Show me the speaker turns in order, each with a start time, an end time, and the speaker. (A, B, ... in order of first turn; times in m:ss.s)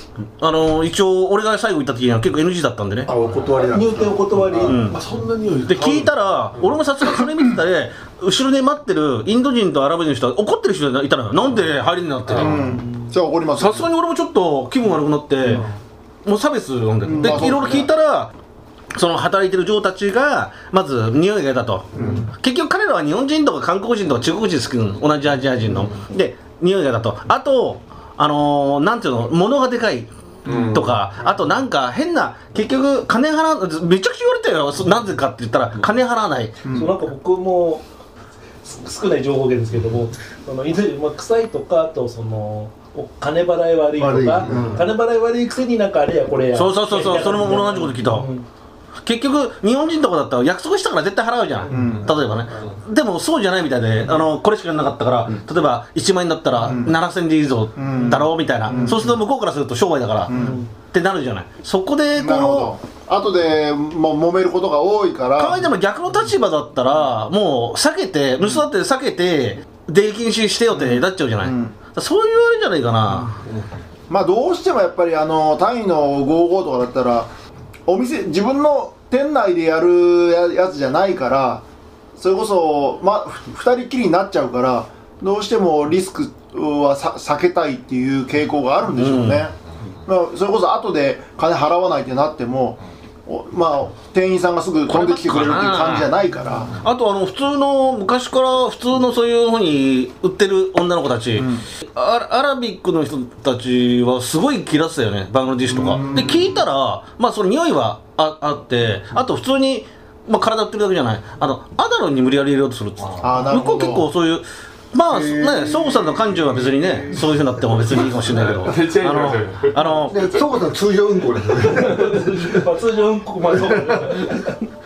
0:00.4-0:03.1 A
0:03.0-0:04.1 B
0:03.4-0:04.9 C
0:04.6-0:06.8 D
0:04.6-0:05.0 A
0:05.7-0:12.6 A
0:12.3-0:13.9 E
0:13.6-0:15.6 A
0:16.2-0:18.3 A
0:17.0-0:17.9 E
0:18.9-0:36.6 A
0:22.0-0:22.3 E
0:30.4-0:30.9 D
0:36.6-0:37.0 E
0:36.7-0:37.8 C
0:38.6-0:48.4 C
0:44.0-0:44.8 E
0:44.4-0:44.8 B
0:46.5-0:48.3 A
0:49.0-1:00.3 A
0:51.7-0:51.9 C
0:51.7-0:52.1 E
0:56.6-0:57.0 E
0:57.8-0:59.1 E
1:00.3-1:00.6 E
1:00.3-1:00.7 C
1:00.9-1:02.7 A
1:02.2-1:05.7 E
1:05.4-1:13.4 A
1:10.7-1:11.7 E
1:14.1-1:17.3 E
1:17.9-1:21.6 E
1:22.2-1:36.7 E
1:29.0-1:29.5 A
1:34.9-1:36.1 A
1:36.8-2:00.2 A
1:41.4-1:41.6 E
1:45.7-1:46.6 E
1:53.2-1:54.1 E
1:55.1-1:57.2 B
1:57.9-2:00.2 D
2:00.0-2:02.5 B
2:01.5-2:04.5 C